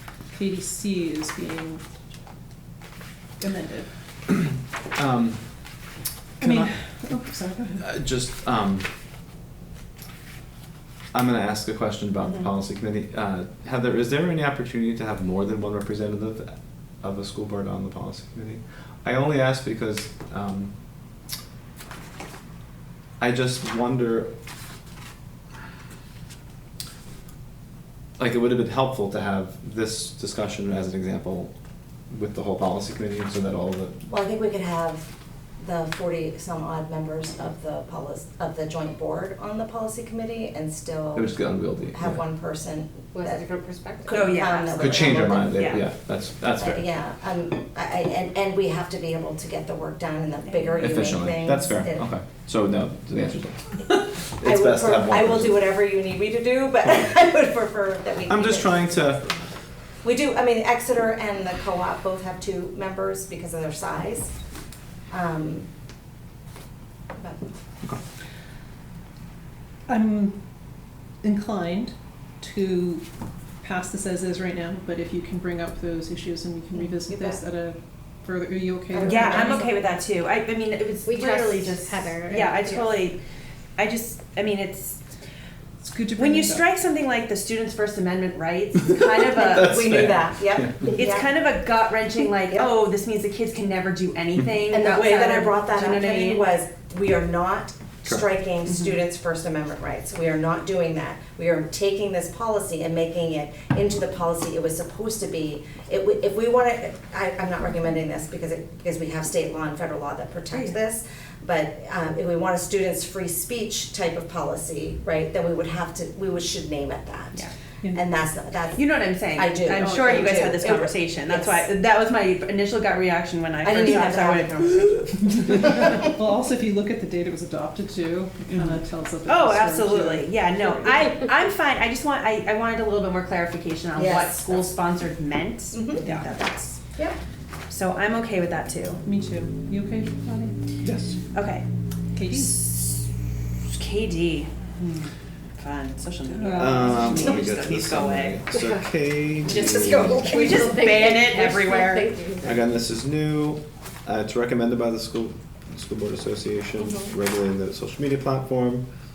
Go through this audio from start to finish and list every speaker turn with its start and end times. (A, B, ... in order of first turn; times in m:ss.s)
0:00.3-0:01.8 A
0:03.4-0:03.9 A
0:04.9-0:05.4 B
0:06.4-0:06.7 B
0:06.4-0:07.9 A
0:07.8-0:08.9 B
0:11.1-0:20.7 B
0:23.2-0:24.3 B
0:28.2-0:31.5 B
0:32.1-0:34.0 B
0:34.1-0:35.0 C
0:35.6-0:43.4 C
0:41.1-0:42.2 B
0:43.1-0:44.3 D
0:44.0-0:45.8 C
0:44.1-0:45.8 E
0:44.7-0:46.8 B
0:46.6-0:52.0 C
0:50.4-0:51.0 E
0:50.8-0:55.7 B
0:54.4-0:59.4 C
0:58.3-0:59.2 B
1:00.0-1:04.3 C
1:05.1-1:05.7 C
1:07.2-1:07.4 C
1:09.9-1:10.4 A
1:11.2-1:13.0 A
1:13.6-1:19.7 A
1:16.7-1:17.4 C
1:18.9-1:19.9 C
1:19.0-1:23.2 E
1:21.0-1:23.0 D
1:23.8-1:25.0 E
1:25.8-1:26.6 A
1:26.2-1:29.8 E
1:28.9-1:30.9 B
1:29.3-1:31.3 C
1:30.9-1:36.5 E
1:34.7-2:01.7 C
1:38.6-1:39.0 E
1:50.5-1:50.8 E
1:57.8-1:58.1 A
1:58.7-2:05.8 E
1:59.7-2:00.6 A
2:03.6-2:05.0 C
2:05.1-2:11.0 A
2:08.5-2:16.8 E
2:13.9-2:14.7 C
2:15.7-2:16.0 C
2:16.0-2:16.5 A
2:17.7-2:19.0 E
2:19.0-2:21.2 A
2:21.3-2:21.6 E
2:22.1-2:22.6 A
2:22.2-2:23.1 E
2:23.7-2:28.4 E
2:26.3-2:27.4 A
2:26.5-2:30.3 B
2:28.5-2:28.9 D
2:29.4-2:32.6 D
2:29.4-2:30.7 C
2:30.2-2:32.1 E
2:32.4-2:38.8 B
2:36.8-2:37.1 C